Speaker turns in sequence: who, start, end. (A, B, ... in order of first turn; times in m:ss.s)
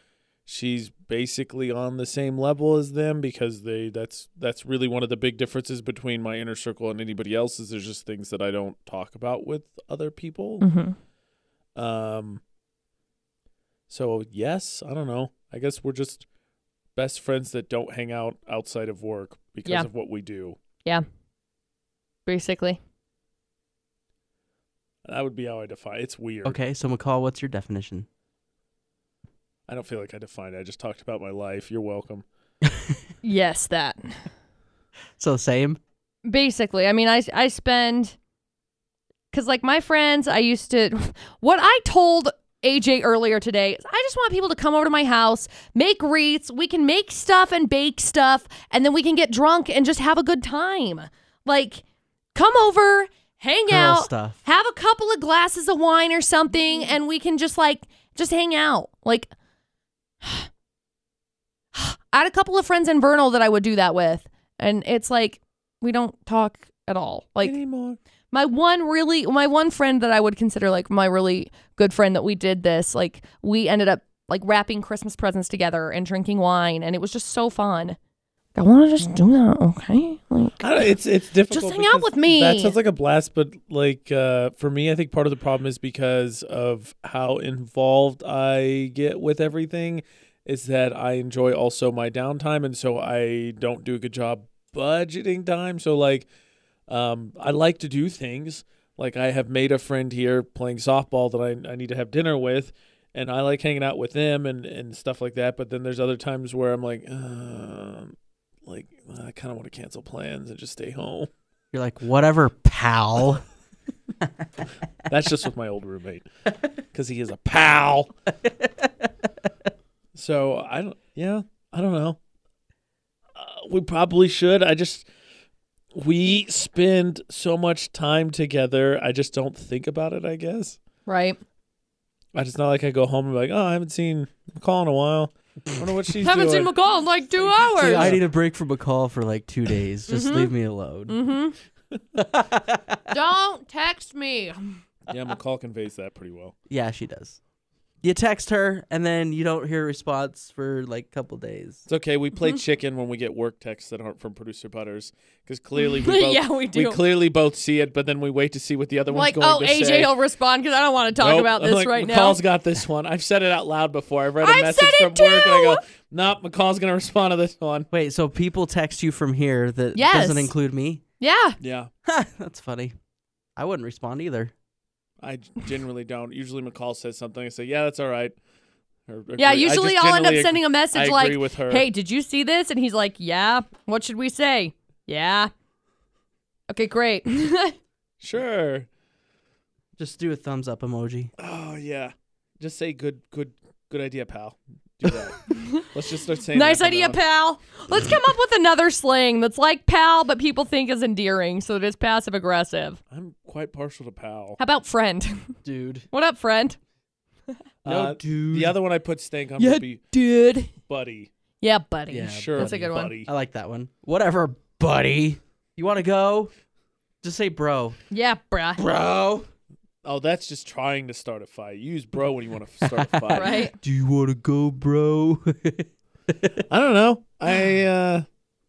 0:00.4-0:10.6 A
0:10.6-0:11.0 B
0:11.8-0:12.4 A
0:13.9-0:16.2 A
0:17.0-0:20.6 A
0:22.2-0:22.8 B
0:25.0-0:26.6 A
0:26.4-0:28.1 C
0:29.7-0:32.2 A
0:32.6-0:33.0 C
0:33.2-0:34.2 B
0:35.2-0:35.8 C
0:36.2-0:38.2 B
0:39.3-0:51.8 B
0:52.3-0:59.3 B
0:53.7-0:54.4 C
1:00.2-1:00.5 B
1:01.7-1:07.6 B
1:07.4-1:08.0 A
1:08.3-1:18.0 B
1:18.5-1:20.9 B
1:20.6-1:36.3 A
1:21.5-1:22.8 B
1:36.9-1:48.1 A
1:48.6-1:51.3 A
1:51.7-1:53.4 C
1:54.2-1:54.4 C
1:55.1-1:56.2 A
1:56.9-1:58.1 A
1:58.4-1:59.1 C
2:00.1-2:02.2 A
2:03.3-2:05.1 A
2:05.9-2:10.8 A
2:11.0-2:11.4 B
2:12.3-2:16.7 A
2:16.2-2:18.2 B
2:17.8-2:21.2 C
2:17.8-2:18.2 A
2:20.1-2:20.5 B
2:21.1-2:21.6 B
2:22.2-2:23.0 C
2:23.1-2:24.8 B
2:25.1-2:26.5 A
2:26.7-2:27.4 C
2:28.0-2:31.8 C
2:31.9-2:40.1 A
2:35.8-2:37.0 B
2:39.1-2:42.4 B
2:41.2-2:47.9 A
2:44.4-2:45.8 B
2:47.9-2:51.0 C
2:49.9-2:50.5 B
2:51.2-2:51.6 B
2:51.6-2:51.9 A
2:52.0-2:52.9 C
2:53.6-2:54.5 C
2:55.2-2:58.4 A
2:59.1-3:01.8 A
2:59.4-3:05.5 B
3:06.7-3:07.8 B
3:08.2-3:08.9 A
3:10.0-3:11.3 C
3:11.4-3:17.2 A
3:15.5-3:15.8 B
3:16.5-3:23.0 B
3:23.1-3:24.6 A
3:24.6-3:25.6 B
3:25.6-3:26.1 C
3:26.1-3:26.8 B
3:27.8-3:30.0 A
3:27.8-3:28.8 C
3:29.6-3:30.7 B
3:30.9-3:31.3 A
3:31.6-3:33.2 B
3:32.1-3:36.5 C
3:32.2-3:33.3 A
3:37.2-3:38.0 C
3:38.1-3:38.8 B
3:38.8-3:39.5 C
3:40.0-3:43.6 A
3:42.8-3:46.6 C
3:43.3-3:43.8 B
3:46.7-3:48.2 A